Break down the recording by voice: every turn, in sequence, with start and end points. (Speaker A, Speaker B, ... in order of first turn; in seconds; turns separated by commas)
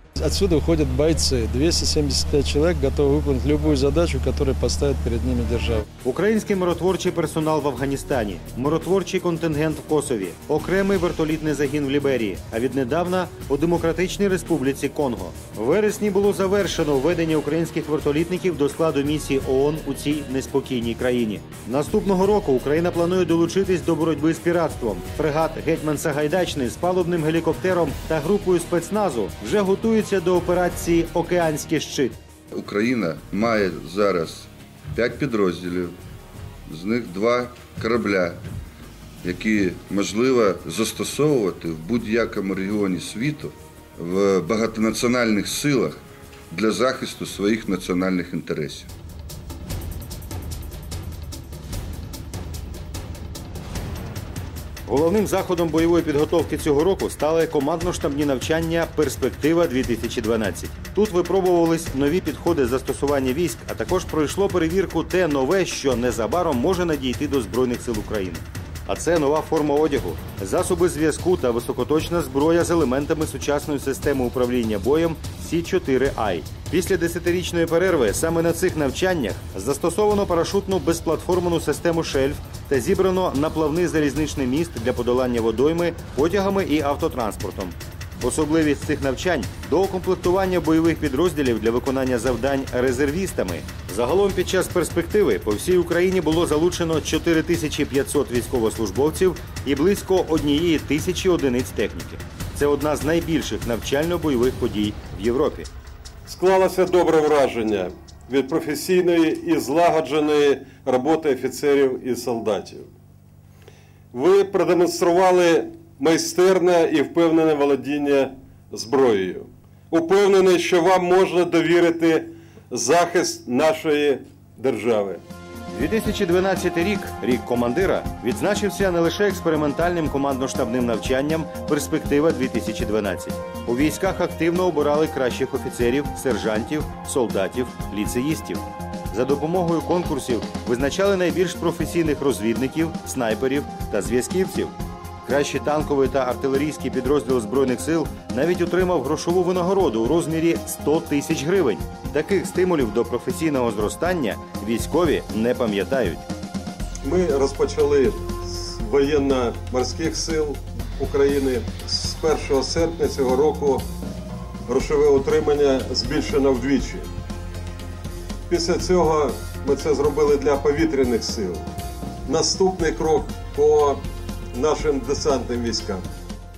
Speaker A: 0.2-5.8, Speaker B: 6.0-32.1, Speaker C: 32.5-35.7, Speaker C: 36.7-38.3, Speaker C: 39.2-45.9, Speaker C: 46.5-48.9, Speaker B: 54.9-105.7, Speaker D: 106.2-112.9, Speaker D: 114.1-125.2, Speaker B: 125.7-144.7, Speaker B: 145.2-156.2, Speaker D: 157.0-163.9, Speaker D: 164.7-167.1, Speaker D: 168.5-171.6, Speaker D: 172.2-174.0, Speaker D: 174.5-176.1